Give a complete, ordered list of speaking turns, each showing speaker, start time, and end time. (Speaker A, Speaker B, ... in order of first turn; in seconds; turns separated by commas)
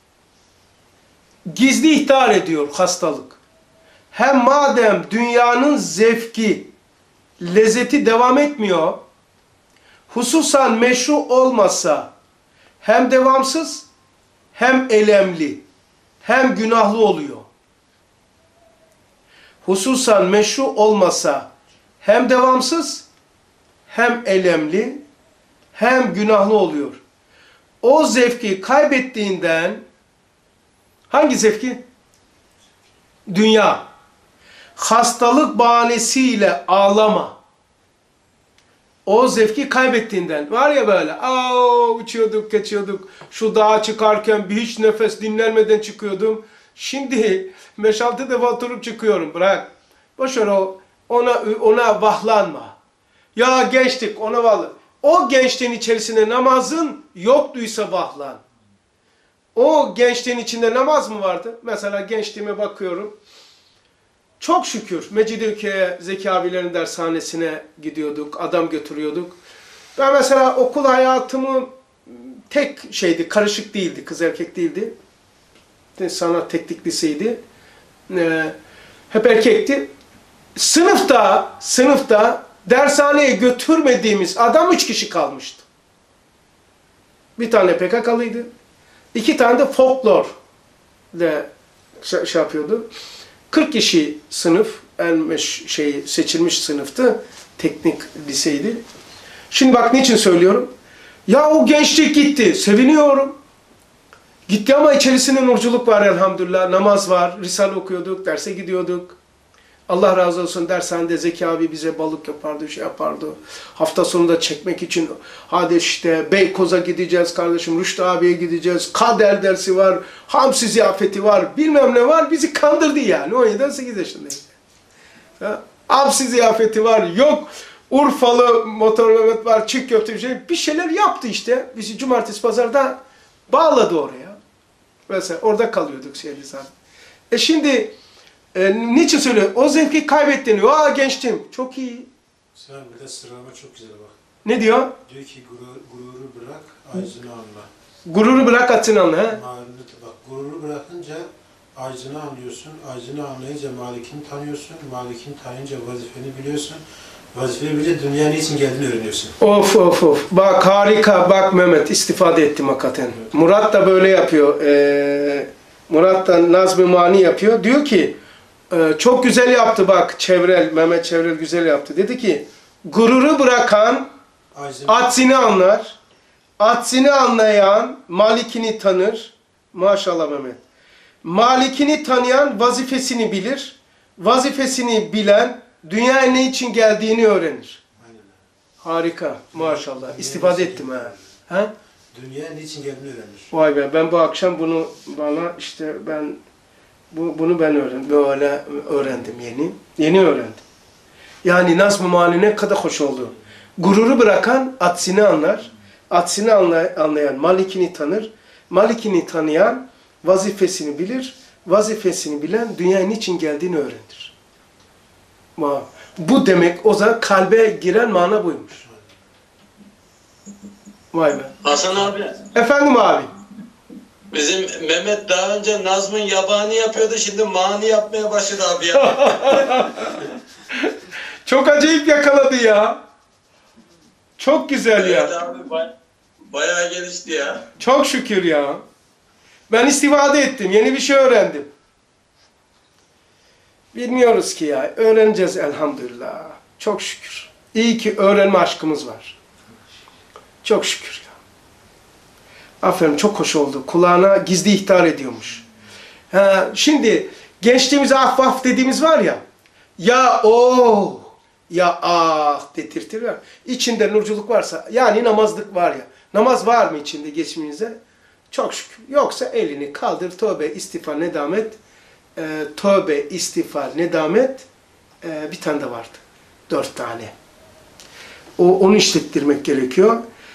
Speaker A: 1.4-3.4, Speaker A: 4.1-6.7, Speaker A: 7.4-9.0, Speaker A: 10.1-12.1, Speaker A: 12.8-13.8, Speaker A: 14.5-15.6, Speaker A: 16.2-17.5, Speaker A: 19.6-21.5, Speaker A: 22.0-23.1, Speaker A: 23.9-25.0, Speaker A: 25.7-27.0, Speaker A: 27.8-29.8, Speaker A: 31.1-31.8, Speaker A: 33.3-33.8, Speaker A: 34.8-37.4, Speaker A: 39.0-52.8, Speaker A: 53.3-58.4, Speaker A: 59.5-63.1, Speaker A: 64.4-69.4, Speaker A: 70.0-74.9, Speaker A: 76.0-77.4, Speaker A: 78.1-78.5, Speaker A: 79.1-79.9, Speaker A: 80.5-85.6, Speaker A: 87.4-88.5, Speaker A: 89.1-90.3, Speaker A: 91.1-91.5, Speaker A: 92.0-92.9, Speaker A: 93.5-98.8, Speaker A: 99.5-100.7, Speaker A: 101.3-103.4, Speaker A: 104.5-109.2, Speaker A: 109.9-124.5, Speaker A: 125.4-133.0, Speaker A: 133.5-134.4, Speaker A: 135.1-136.7, Speaker A: 137.3-137.9, Speaker A: 138.5-142.1, Speaker B: 142.5-144.2, Speaker A: 144.4-144.9, Speaker B: 145.0-147.7, Speaker A: 148.1-149.4, Speaker B: 149.3-159.4, Speaker A: 159.4-168.2, Speaker A: 168.7-174.1, Speaker B: 174.5-175.1, Speaker A: 174.9-176.0, Speaker A: 176.6-180.6, Speaker A: 181.2-187.8, Speaker B: 187.9-188.4, Speaker A: 188.8-191.7, Speaker B: 189.5-191.3, Speaker B: 192.1-193.5, Speaker A: 193.5-196.4, Speaker A: 197.1-200.6, Speaker A: 201.4-214.3, Speaker A: 215.6-218.8, Speaker A: 221.1-221.5, Speaker C: 221.6-222.4, Speaker A: 222.5-223.3, Speaker C: 224.3-229.8, Speaker A: 228.9-230.2, Speaker A: 231.4-233.0, Speaker A: 234.4-235.3, Speaker C: 235.0-235.9, Speaker C: 236.5-237.6, Speaker A: 237.8-238.8, Speaker A: 239.7-241.7, Speaker A: 243.9-249.3, Speaker A: 250.6-251.3, Speaker A: 252.8-255.6, Speaker A: 256.3-259.4, Speaker A: 260.0-268.0, Speaker A: 268.5-271.8, Speaker A: 272.4-274.6, Speaker A: 275.2-277.3, Speaker A: 278.6-280.2